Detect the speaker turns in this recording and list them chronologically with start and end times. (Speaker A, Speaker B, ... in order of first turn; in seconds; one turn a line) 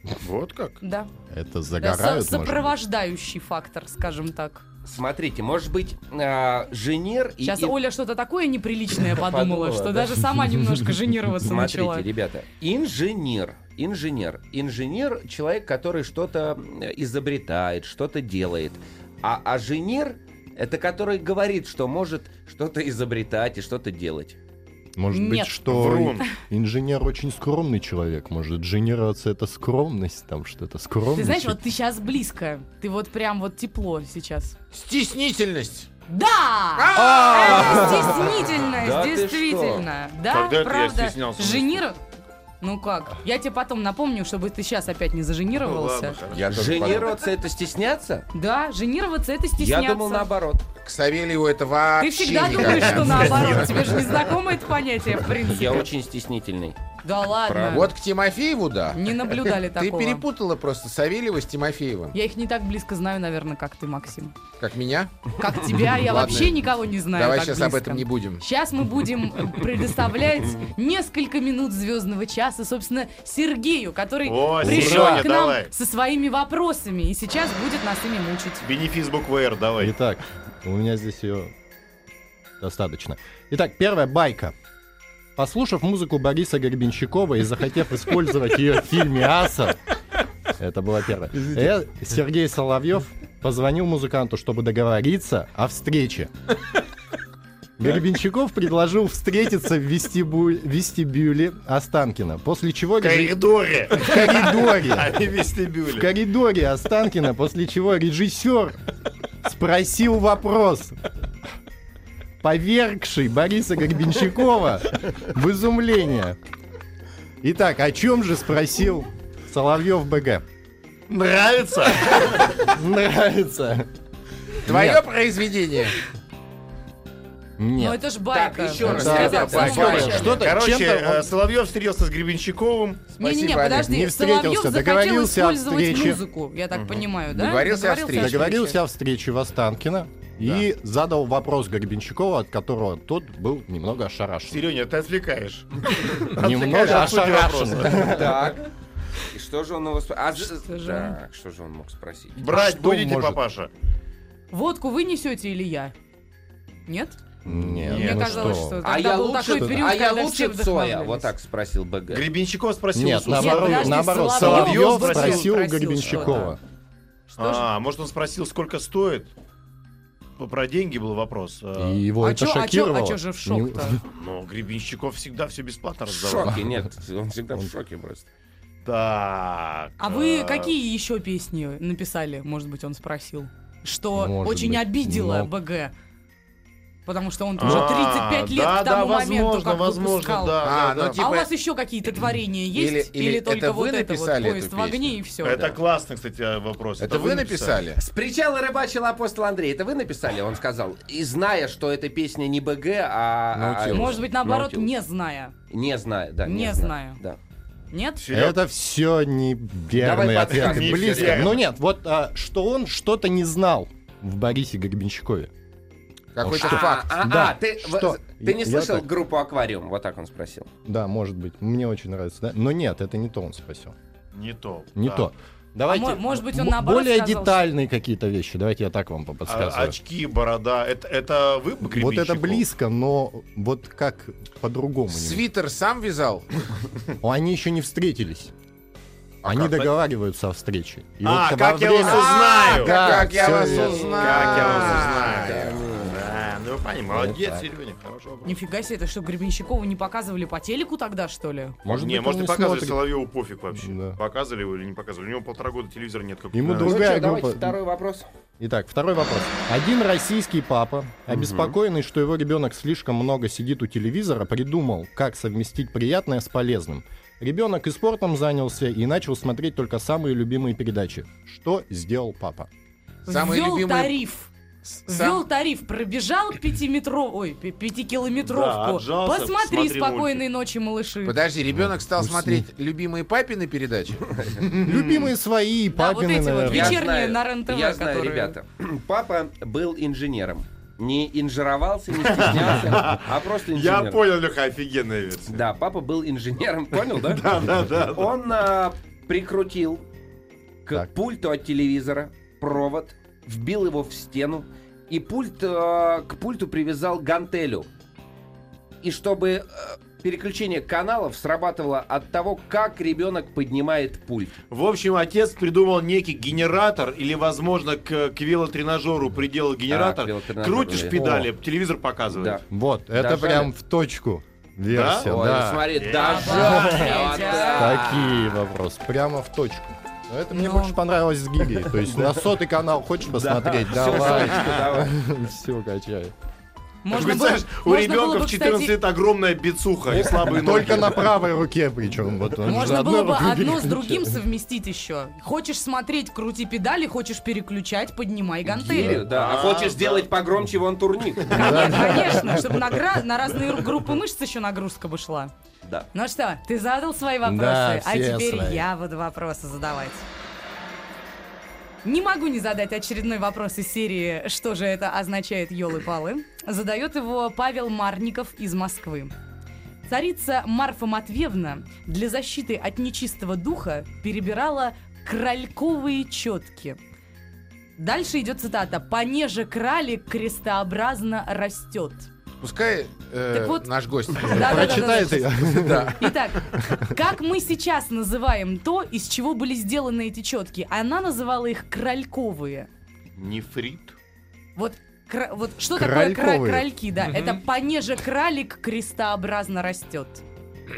Speaker A: 0.2-0.8
Speaker B: 0.8-1.1
Speaker C: 1.3-2.7
Speaker B: 1.8-4.6
Speaker D: 4.8-7.8
Speaker B: 7.4-12.1
Speaker D: 9.0-10.2
Speaker D: 11.4-24.4
Speaker C: 24.9-31.6
Speaker B: 25.1-25.5
Speaker A: 25.7-26.2
Speaker B: 31.1-34.6
Speaker E: 34.7-35.9
Speaker B: 36.1-42.0
Speaker E: 36.8-38.2
Speaker D: 37.1-38.1
Speaker D: 38.7-39.9
Speaker A: 40.3-41.8
Speaker B: 42.6-46.2
Speaker A: 45.5-47.2
Speaker E: 46.3-47.0
Speaker D: 46.4-48.3
Speaker B: 48.3-50.3
Speaker D: 49.6-50.6
Speaker E: 50.8-53.7
Speaker B: 52.0-55.9
Speaker A: 52.6-54.2
Speaker D: 55.5-56.8
Speaker B: 57.0-57.9
Speaker D: 57.5-57.9
Speaker E: 57.7-59.0
Speaker B: 58.9-60.2
Speaker E: 59.6-62.1
Speaker B: 62.1-64.3
Speaker E: 64.6-65.1
Speaker B: 65.4-78.6
Speaker E: 66.0-68.4
Speaker A: 74.2-75.7
Speaker C: 74.6-75.3
Speaker A: 78.6-79.9
Speaker C: 79.8-81.5
Speaker C: 82.6-84.5
Speaker C: 85.3-89.8
Speaker C: 90.5-96.3
Speaker C: 97.8-105.3
Speaker A: 103.0-106.1
Speaker C: 105.8-108.8
Speaker C: 109.4-111.0
Speaker C: 112.4-116.4
Speaker C: 117.4-120.4
Speaker A: 121.1-122.6
Speaker C: 122.6-123.9
Speaker E: 124.6-125.9
Speaker C: 124.7-125.0
Speaker C: 127.6-128.0
Speaker B: 127.8-130.4
Speaker D: 128.3-130.5
Speaker C: 128.8-131.3
Speaker A: 128.9-133.1
Speaker E: 133.2-133.9
Speaker B: 133.2-138.8
Speaker C: 133.7-136.2
Speaker A: 136.7-137.1
Speaker E: 137.3-138.4
Speaker C: 138.1-144.6
Speaker A: 144.5-148.2
Speaker C: 146.4-148.6
Speaker D: 147.9-148.6
Speaker D: 149.3-152.4
Speaker B: 150.4-151.2
Speaker A: 152.4-153.7
Speaker C: 152.4-153.4
Speaker B: 154.5-155.9
Speaker B: 156.9-157.2
Speaker A: 157.4-158.7
Speaker C: 157.4-158.8
Speaker B: 157.9-161.3
Speaker D: 158.8-162.3
Speaker C: 159.6-159.8
Speaker A: 162.1-165.5
Speaker C: 162.9-166.6
Speaker B: 163.3-166.6
Speaker A: 167.3-169.3
Speaker B: 167.4-167.6
Speaker A: 170.4-172.0
Speaker C: 171.8-174.0
Speaker B: 172.2-174.0
Speaker A: 174.1-176.6
Speaker D: 176.1-178.3
Speaker A: 178.8-180.7
Speaker B: 180.0-185.9
Speaker C: 184.1-185.5
Speaker B: 187.1-190.6
Speaker A: 187.6-191.2
Speaker E: 190.6-191.5
Speaker B: 191.1-195.7
Speaker E: 192.7-195.2
Speaker A: 195.4-197.9
Speaker E: 197.0-198.0
Speaker D: 198.0-204.9
Speaker C: 203.5-204.2
Speaker B: 203.9-205.5
Speaker D: 205.7-207.4
Speaker B: 206.4-207.2
Speaker B: 207.9-208.2
Speaker A: 208.2-208.6
Speaker C: 208.3-215.5
Speaker D: 209.9-211.6
Speaker A: 210.5-211.6
Speaker E: 216.3-217.2
Speaker C: 216.4-219.1
Speaker D: 216.5-220.7
Speaker C: 220.8-223.9
Speaker A: 224.3-225.3
Speaker C: 224.9-230.0
Speaker B: 225.9-227.7
Speaker A: 229.4-232.6
Speaker C: 231.8-235.4
Speaker E: 235.1-236.4
Speaker C: 237.2-238.5
Speaker C: 239.4-244.9
Speaker A: 239.5-239.9
Speaker A: 241.2-248.6
Speaker B: 242.2-242.6
Speaker E: 242.6-245.8
Speaker D: 244.2-246.3
Speaker C: 247.1-247.7
Speaker B: 248.4-251.8
Speaker C: 251.8-253.1
Speaker A: 251.9-257.2
Speaker C: 253.7-254.2
Speaker C: 256.5-257.8
Speaker D: 256.8-258.3
Speaker C: 258.6-272.7
Speaker D: 261.3-261.8
Speaker B: 273.2-274.5
Speaker E: 273.3-274.2
Speaker E: 274.9-275.4
Speaker B: 275.1-281.4
Speaker A: 278.4-280.4
Speaker E: 281.2-284.3
Speaker C: 281.8-282.7
Speaker D: 284.3-284.6
Speaker C: 284.7-287.0
Speaker A: 284.8-285.3
Speaker B: 285.9-288.6
Speaker D: 286.6-294.3
Speaker A: 292.1-295.6
Speaker D: 295.4-300.0
Speaker A: 297.1-298.3
Speaker D: 300.8-307.9
Speaker D: 309.0-314.6
Speaker A: 314.7-322.6
Speaker D: 319.9-321.3
Speaker C: 321.1-321.5
Speaker D: 322.3-323.7
Speaker C: 322.7-325.9
Speaker A: 324.9-325.3
Speaker D: 325.2-328.6
Speaker A: 325.9-327.6
Speaker B: 326.1-328.0
Speaker C: 326.6-327.0
Speaker C: 327.8-336.3
Speaker B: 330.5-331.0
Speaker D: 332.0-332.4
Speaker D: 333.3-335.2
Speaker A: 334.2-334.8
Speaker B: 337.0-339.0
Speaker A: 337.1-341.3
Speaker C: 340.1-344.4
Speaker B: 342.6-349.2
Speaker D: 348.7-352.1
Speaker C: 348.8-349.2
Speaker A: 349.0-350.3
Speaker C: 351.5-352.9
Speaker B: 351.5-355.5
Speaker B: 356.1-360.2
Speaker C: 357.4-358.9
Speaker B: 362.0-369.3
Speaker B: 370.1-377.0
Speaker B: 378.0-382.3
Speaker E: 382.6-385.1
Speaker B: 383.5-383.9
Speaker B: 384.4-392.9
Speaker C: 384.4-387.1
Speaker E: 385.7-386.2
Speaker A: 393.4-394.1
Speaker B: 394.8-400.4
Speaker C: 395.9-396.9
Speaker A: 397.2-397.6